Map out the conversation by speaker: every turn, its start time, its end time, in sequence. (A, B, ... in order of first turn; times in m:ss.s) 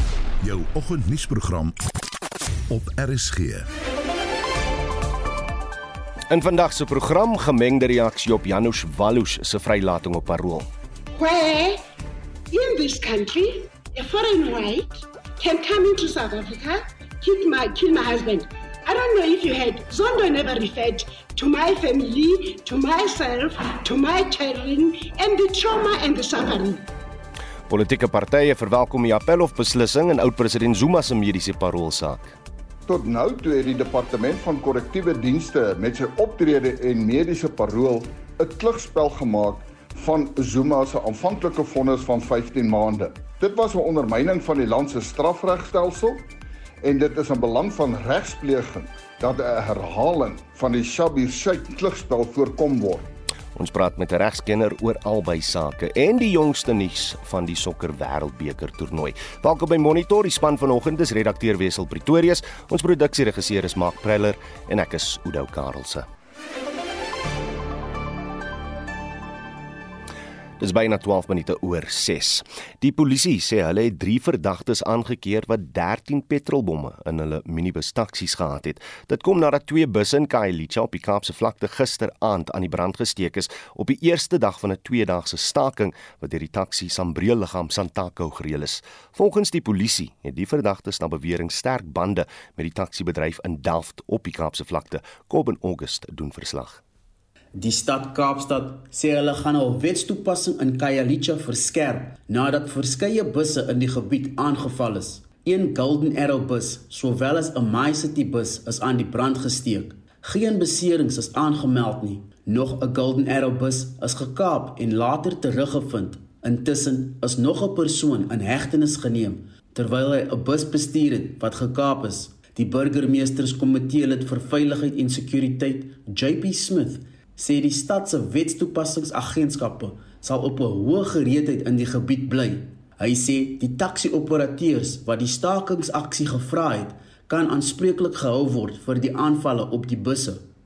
0:00.4-0:01.8 A
0:02.7-0:03.6 A
0:06.3-0:10.7 B
0:11.1-0:11.8 C
0:12.5-0:26.8 C
0:27.7-0:32.4 B
0:32.9-0:46.2 D
0:46.8-0:53.1 D
0:53.5-1:06.1 B
1:10.6-1:36.8 B
1:37.5-2:20.5 E